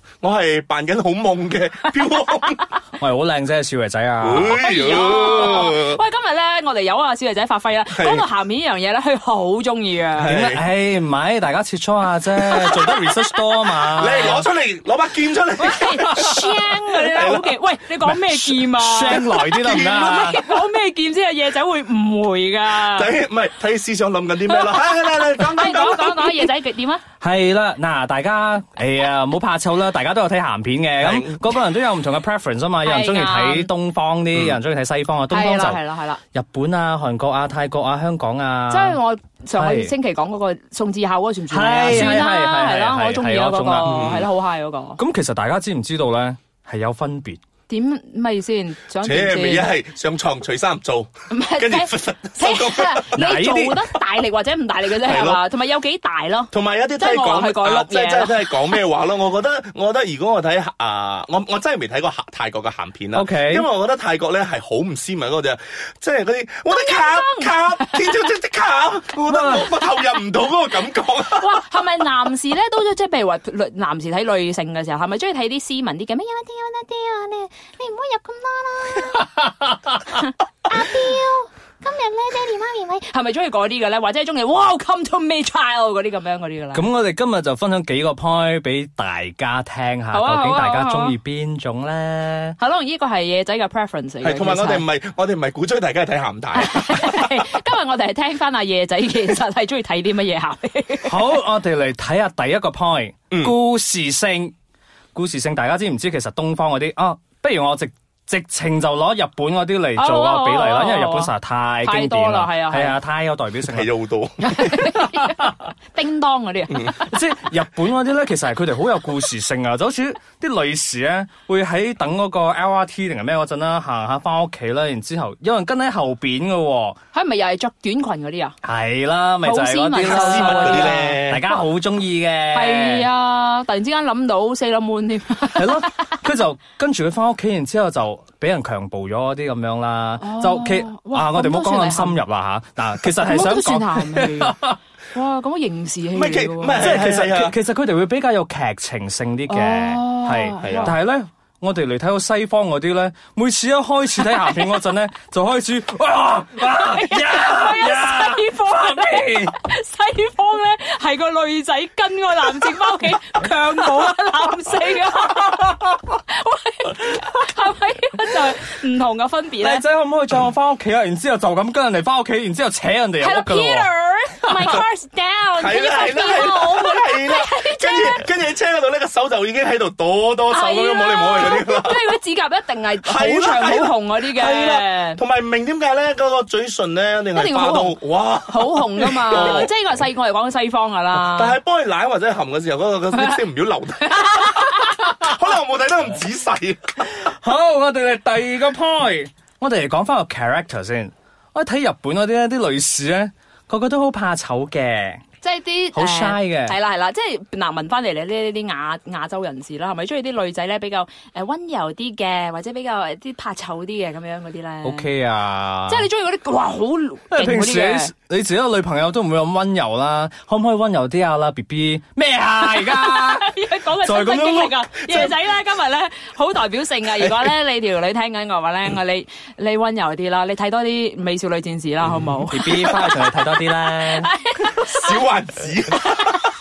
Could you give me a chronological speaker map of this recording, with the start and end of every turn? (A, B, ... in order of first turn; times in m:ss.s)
0:00.2-0:02.7 A
0:01.8-0:02.8 B
0:03.0-0:04.6 C
0:04.2-0:06.0 A
0:04.6-0:10.3 B
0:07.9-0:08.3 A
0:10.2-0:10.7 A
0:10.2-0:14.5 C
0:12.5-0:13.4 B
0:14.0-0:20.2 A
0:15.6-0:23.1 B
0:18.8-0:20.4 C
0:22.7-0:26.5 A
0:24.4-0:27.0 B
0:27.2-0:35.8 C
0:31.0-0:31.4 A
0:32.8-0:33.7 B
0:35.3-0:36.2 B
0:36.3-0:39.0 C
0:38.7-0:45.0 B
0:39.6-0:39.9 C
0:41.5-0:44.0 C
0:43.8-0:44.3 A
0:45.0-0:47.4 C
0:47.7-0:49.7 B
0:49.0-0:53.1 A
0:51.3-0:58.8 B
0:53.1-0:53.8 C
0:55.0-0:55.4 A
0:56.5-1:11.5 A
1:03.1-1:03.7 C
1:06.7-1:08.2 B
1:09.2-1:09.7 C
1:11.3-1:26.9 B
1:26.7-1:32.6 C
1:30.1-1:31.2 B
1:32.6-1:34.8 B
1:34.2-1:37.4 A
1:36.6-1:41.2 B
1:41.0-1:44.5 C
1:45.1-1:53.9 C
1:50.0-1:53.0 B
1:53.7-1:54.8 A
1:54.4-1:57.0 B
1:57.0-2:07.0 C
2:07.1-2:08.6 B
2:08.6-2:13.1 C
2:09.4-2:11.2 B
2:10.1-2:11.4 A
2:12.5-2:16.1 B
2:15.6-2:24.8 C
2:20.2-2:22.2 B
2:23.2-2:24.6 B
2:25.1-2:27.0 B
2:26.1-2:27.6 A
2:26.8-2:39.5 C
2:29.5-2:30.9 B
2:30.6-2:30.9 A
2:36.6-2:49.8 B
2:49.6-2:53.9 C
2:53.2-2:58.3 B
2:55.6-3:02.1 A
3:00.5-3:05.2 B
3:03.0-3:09.7 A
3:07.3-3:08.0 B
3:08.5-3:11.6 B
3:11.1-3:17.1 A
3:14.1-3:15.0 B
3:17.1-3:25.2 C
3:25.4-3:35.1 B
3:25.9-3:26.8 C
3:34.8-3:36.1 C
3:35.9-3:38.1 B
3:37.3-3:44.8 C
3:42.7-3:55.2 B
3:52.4-3:54.3 C
3:54.7-3:56.4 A